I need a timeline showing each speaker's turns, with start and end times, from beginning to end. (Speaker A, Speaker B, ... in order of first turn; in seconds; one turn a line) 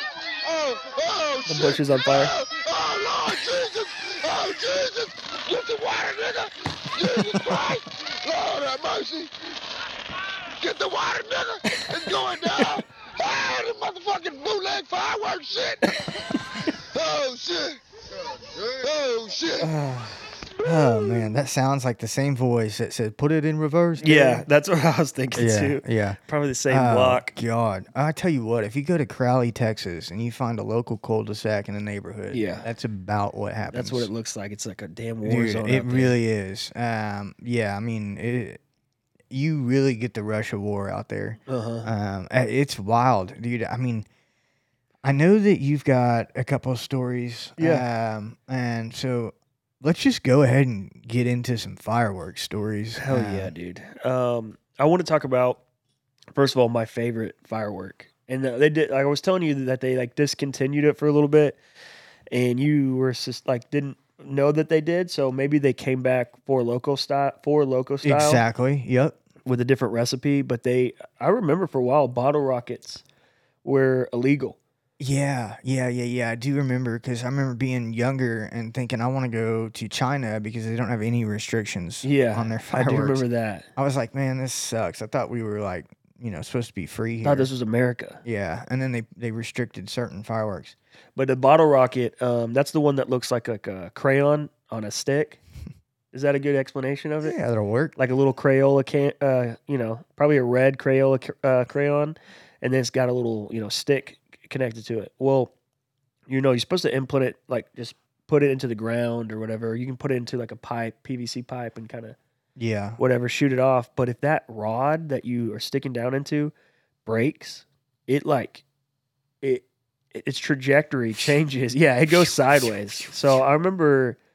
Speaker A: 0.4-9.6
Speaker B: 1.4-2.3
Speaker A: 10.6-19.7
Speaker C: 19.6-24.4
Speaker A: 20.4-21.3
Speaker B: 24.0-27.3
Speaker C: 25.4-34.1
Speaker B: 32.3-32.7
Speaker B: 33.7-36.1
Speaker C: 35.2-38.6
Speaker C: 39.3-44.0
Speaker B: 41.5-41.9
Speaker C: 45.0-53.5
Speaker B: 47.6-47.9
Speaker B: 53.0-55.6
Speaker B: 56.3-61.6
Speaker B: 62.3-68.4
Speaker C: 68.0-69.2
Speaker B: 69.4-73.0
Speaker B: 73.6-74.6
Speaker C: 75.0-83.2
Speaker B: 82.0-83.7
Speaker C: 83.8-87.5
Speaker B: 87.2-88.2
Speaker C: 88.2-90.7
Speaker B: 91.2-95.4
Speaker B: 96.1-97.4
Speaker C: 97.2-97.9
Speaker B: 98.0-105.5
Speaker B: 106.3-112.2
Speaker C: 112.6-113.0
Speaker B: 113.0-116.5
Speaker B: 117.0-118.6
Speaker B: 119.4-124.2
Speaker C: 122.6-123.0